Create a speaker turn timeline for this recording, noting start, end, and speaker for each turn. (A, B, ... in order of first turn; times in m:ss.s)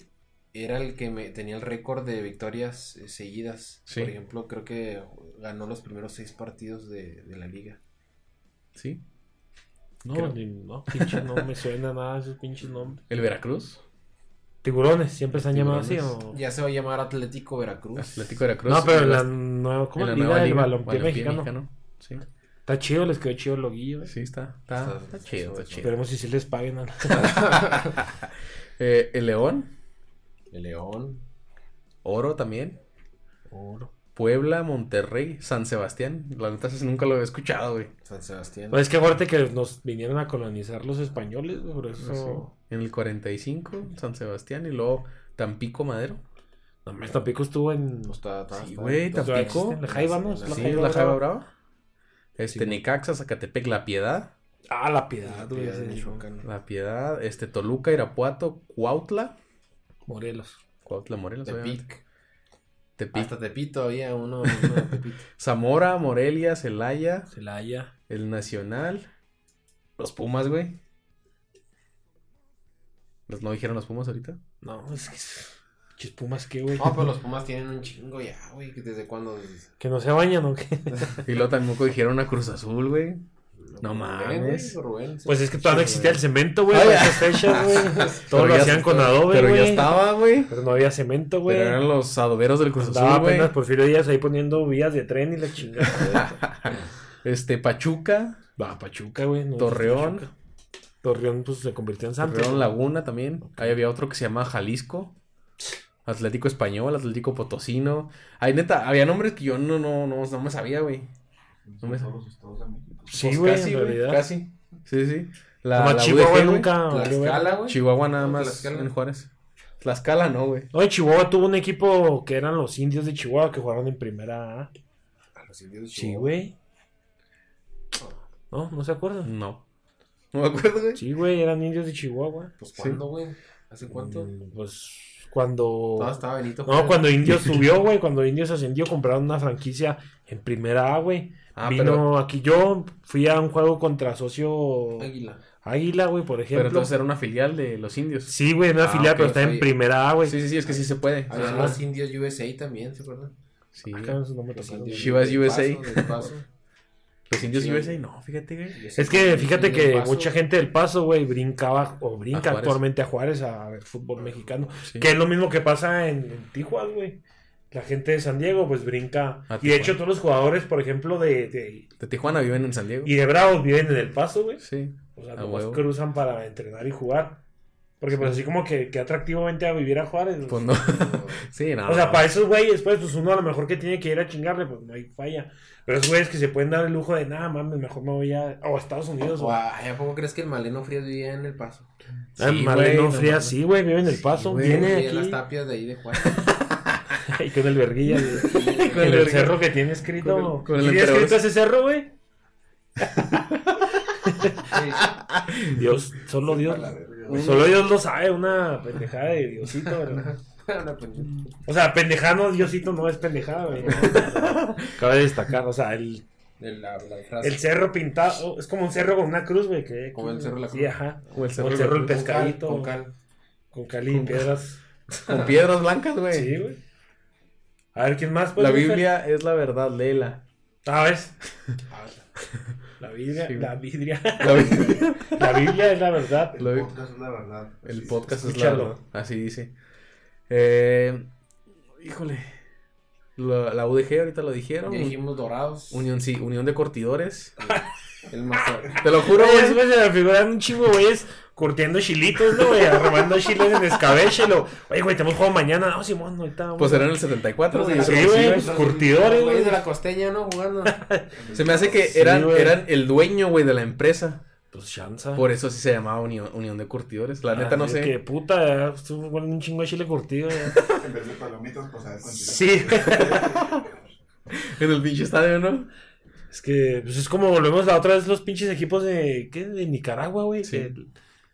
0:00.5-0:07.8 A
0:03.9-0:04.1 B
0:08.8-0:09.0 B
0:10.0-0:13.0 C
0:10.9-0:11.4 B
0:13.1-0:13.8 B
0:14.6-0:16.4 C
0:15.3-0:16.2 B
0:16.3-0:18.4 A
0:18.0-0:19.3 B
0:18.7-0:21.5 C
0:20.0-0:22.2 B
0:22.7-0:24.1 C
0:24.1-0:25.9 B
0:24.8-0:25.9 A
0:25.8-0:27.4 C
0:27.1-0:28.0 A
0:27.7-0:29.7 B
0:30.5-0:31.2 A
0:32.0-0:32.8 B
0:33.5-0:33.9 C
0:34.2-0:37.9 B
0:38.0-0:38.9 A
0:38.7-0:42.5 C
0:42.0-0:46.2 B
0:46.9-0:48.2 C
0:48.1-0:50.9 A
0:48.5-0:49.8 B
0:49.2-0:51.2 C
0:50.5-0:51.5 B
0:52.4-0:54.3 B
0:52.5-0:52.8 C
0:54.7-0:56.2 C
0:55.2-0:56.5 A
0:56.4-0:59.4 B
1:00.1-1:00.6 C
1:00.8-1:01.8 B
1:01.4-1:02.0 A
1:03.0-1:03.3 B
1:03.1-1:05.3 A
1:05.4-1:07.3 B
1:07.3-1:07.9 C
1:08.1-1:09.1 B
1:10.0-1:10.8 B
1:13.3-1:14.4 B
1:14.6-1:17.0 C
1:16.8-1:19.7 A
1:19.8-1:21.2 C
1:20.9-1:21.2 A
1:21.2-1:23.2 B
1:23.6-1:26.0 A
1:23.8-1:24.8 B
1:25.3-1:31.8 C
1:25.6-1:27.8 B
1:27.5-1:28.3 A
1:28.3-1:30.5 B
1:31.5-1:33.5 B
1:32.8-1:36.3 C
1:36.0-1:38.4 B
1:38.6-1:40.3 C
1:39.6-1:40.3 B
1:41.0-1:42.7 C
1:42.2-1:45.2 B
1:46.1-1:51.1 B
1:51.7-1:53.1 D
1:51.8-1:52.1 B
1:53.1-1:54.3 C
1:53.1-1:56.8 B
1:55.7-1:57.5 C
1:56.9-1:58.9 A
1:57.7-1:59.3 B
1:59.8-2:00.7 B
2:00.7-2:04.7 C
2:05.4-2:06.3 A
2:06.0-2:06.6 C
2:08.5-2:09.3 C
2:09.2-2:09.6 B
2:10.3-2:11.0 B
2:11.0-2:12.5 C
2:12.6-2:14.3 A
2:12.8-2:13.0 B
2:13.9-2:25.1 C
2:16.0-2:17.2 A
2:21.6-2:22.1 B
2:25.0-2:25.4 A
2:25.6-2:26.9 C
2:26.5-2:29.5 B
2:28.3-2:30.4 C
2:29.0-2:29.7 A
2:30.2-2:31.8 B
2:31.3-2:33.3 A
2:31.3-2:31.8 C
2:33.8-2:34.2 B
2:33.9-2:35.3 C
2:34.5-2:36.5 A
2:35.0-2:36.3 B
2:37.3-2:38.8 B
2:37.4-2:38.0 A
2:38.7-2:40.3 A
2:39.0-2:51.9 C
2:42.3-2:42.8 B
2:49.5-2:50.0 B
2:52.0-2:53.1 B
2:53.0-2:54.6 C
2:54.6-2:55.8 B
2:55.2-2:57.4 C
2:58.0-3:00.8 C
3:00.5-3:02.3 B
3:00.8-3:01.5 A
3:01.9-3:09.6 C
3:09.3-3:11.9 A
3:12.4-3:14.9 B
3:12.4-3:15.4 C
3:14.5-3:16.5 A
3:17.1-3:22.1 C
3:18.2-3:19.3 A
3:18.5-3:19.6 B
3:20.2-3:21.4 B
3:23.0-3:23.4 C
3:23.3-3:23.9 B
3:24.1-3:24.7 C
3:24.6-3:25.2 A
3:25.0-3:25.8 B
3:25.7-3:30.3 C
3:26.4-3:27.6 D
3:27.3-3:27.8 B
3:30.0-3:31.6 A
3:31.7-3:36.3 C
3:33.8-3:34.3 A
3:33.9-3:35.0 B
3:36.6-3:37.6 A
3:37.4-3:42.9 C
3:40.2-3:43.1 A
3:41.3-3:42.2 B
3:43.7-3:44.8 C
3:44.1-3:44.5 B
3:45.3-3:45.6 A
3:45.3-3:46.5 B
3:46.3-3:46.8 C
3:48.0-3:49.1 C
3:48.6-3:50.4 B
3:50.8-3:51.4 C
3:51.9-3:52.3 A
3:53.0-3:56.6 C
3:53.4-3:53.7 B
3:54.4-3:55.7 B
3:54.5-3:55.0 D
3:56.5-3:58.3 D
3:56.6-3:56.9 B
3:57.8-3:59.7 B
3:58.3-3:59.0 C
4:00.5-4:01.3 B
4:02.0-4:02.6 B
4:03.4-4:05.2 B
4:04.9-4:06.1 A
4:05.9-4:07.6 B
4:07.6-4:09.1 A
4:08.9-4:17.1 C
4:09.0-4:09.8 B
4:16.8-4:18.7 B
4:17.7-4:21.0 A
4:18.0-4:19.8 C
4:20.9-4:21.3 C
4:21.3-4:22.1 D
4:21.5-4:24.4 B
4:22.0-4:22.8 C
4:24.7-4:25.5 C
4:25.4-4:28.2 B
4:27.5-4:30.9 C
4:30.9-4:34.0 D
4:32.4-4:33.5 C
4:33.6-4:33.8 B
4:34.5-4:35.9 B
4:36.5-4:41.1 C
4:40.6-4:40.9 B